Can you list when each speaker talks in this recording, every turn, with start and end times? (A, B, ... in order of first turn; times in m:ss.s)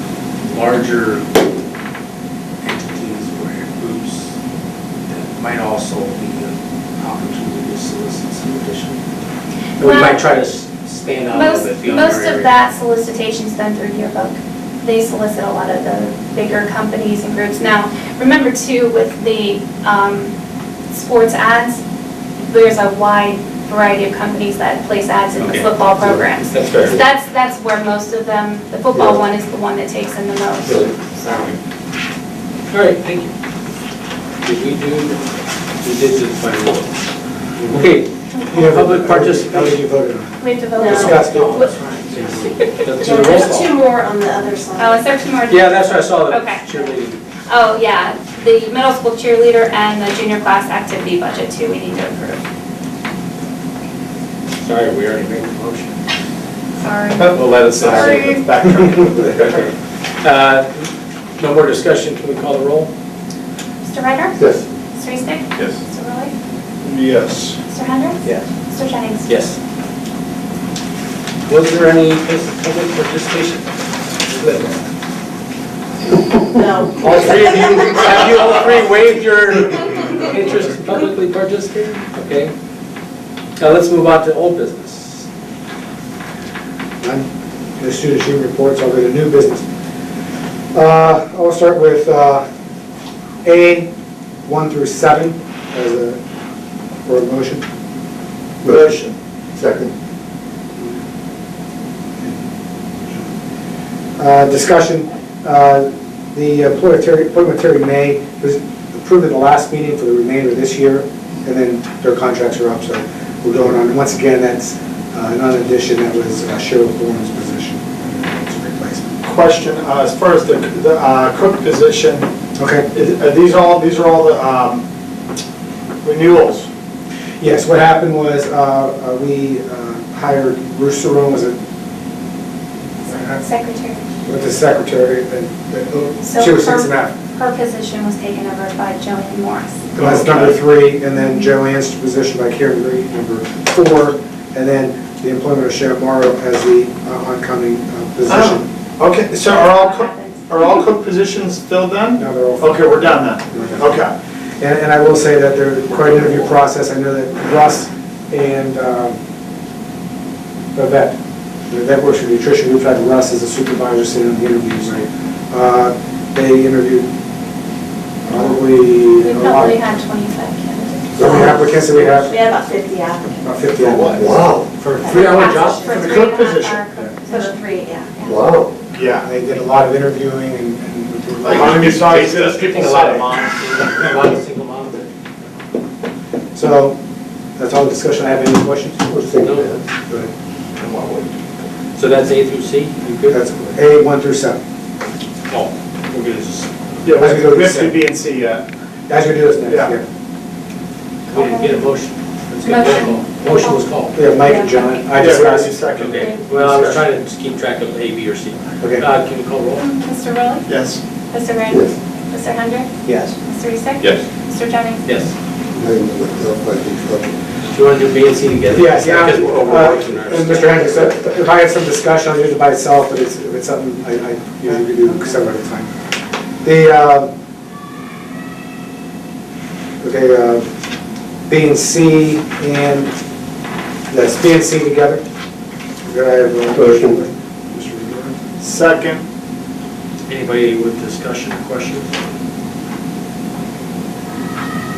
0:00.4-0:01.3 A
0:02.6-0:04.3 A
0:05.1-0:09.0 A
0:09.8-0:12.5 A
0:09.8-0:10.2 B
0:11.3-0:20.3 B
0:20.9-0:21.8 B
0:22.5-0:31.6 B
0:25.4-0:25.7 A
0:26.5-0:27.0 A
0:28.9-0:29.2 C
0:32.7-0:33.3 A
0:34.4-0:35.2 A
0:35.8-0:36.9 A
0:37.6-0:39.8 A
0:38.5-0:42.5 D
0:40.4-0:41.7 B
0:40.8-0:41.2 E
0:40.9-0:43.7 A
0:43.0-0:45.1 E
0:44.8-0:47.0 B
0:45.5-0:47.2 A
0:47.5-0:52.4 B
0:54.6-0:56.0 A
0:56.8-0:57.4 B
0:57.2-0:59.6 F
0:57.3-0:58.4 A
0:59.2-1:02.9 A
1:03.9-1:04.4 B
1:04.4-1:04.6 C
1:04.9-1:06.3 B
1:06.8-1:07.6 F
1:07.7-1:09.4 B
1:09.3-1:09.6 A
1:11.5-1:13.7 A
1:14.3-1:14.8 A
1:16.4-1:18.0 E
1:17.0-1:22.5 A
1:23.6-1:25.3 A
1:27.8-1:29.7 D
1:30.7-1:32.4 D
1:33.4-1:33.9 D
1:34.5-1:36.2 D
1:37.1-1:37.6 D
1:38.6-1:39.0 C
1:38.7-1:39.2 F
1:39.6-1:39.9 C
1:44.2-1:59.1 D
1:59.2-2:02.3 F
2:02.6-2:02.9 D
2:02.9-2:04.8 F
2:06.0-2:06.7 F
2:07.4-2:11.6 D
2:13.0-2:13.4 D
2:13.4-2:14.0 B
2:14.2-2:17.1 D
2:16.2-2:19.8 B
2:20.0-2:20.6 F
2:20.0-2:28.7 D
2:21.2-2:21.5 B
2:28.3-2:34.1 F
2:29.4-2:30.5 B
2:32.2-2:33.9 D
2:34.6-2:39.2 D
2:40.8-2:41.2 D
2:41.7-2:47.1 D
2:48.2-2:49.8 D
2:49.2-2:51.1 B
2:51.2-2:52.3 D
2:51.2-2:52.3 A
2:51.2-2:51.5 E
2:52.3-2:54.0 E
2:53.4-2:55.2 D
2:54.2-2:54.8 C
2:54.9-2:56.0 E
2:55.1-2:56.1 A
2:55.1-2:58.4 B
2:55.9-2:56.8 F
2:57.3-2:58.2 E
2:58.2-2:58.8 C
2:58.9-2:59.3 F
2:59.1-3:02.1 D
3:01.4-3:03.3 F
3:01.6-3:05.1 A
3:06.5-3:07.0 D
3:07.6-3:09.0 D
3:09.0-3:09.8 C
3:09.4-3:09.7 A
3:10.8-3:11.3 F
3:12.0-3:13.4 A
3:13.3-3:14.6 D
3:15.5-3:17.0 A
3:17.0-3:18.6 F
3:17.1-3:18.1 D
3:19.1-3:20.0 D
3:19.7-3:19.9 F
3:21.3-3:21.8 B
3:21.3-3:24.2 A
3:22.6-3:23.8 B
3:24.1-3:25.8 D
3:24.5-3:25.0 E
3:25.1-3:27.0 F
3:26.0-3:29.8 A
3:28.8-3:29.1 D
3:29.8-3:30.7 B
3:30.7-3:31.0 F
3:31.3-3:35.1 B
3:33.1-3:33.4 D
3:35.0-3:35.3 A
3:35.8-3:37.4 C
3:37.7-3:41.1 A
3:38.7-3:45.9 D
3:46.6-3:47.3 D
3:50.0-3:50.7 D
3:51.5-3:53.1 D
3:54.1-3:55.2 D
3:56.0-3:58.4 D
3:56.7-3:57.2 C
3:58.6-3:59.2 F
4:00.3-4:02.1 A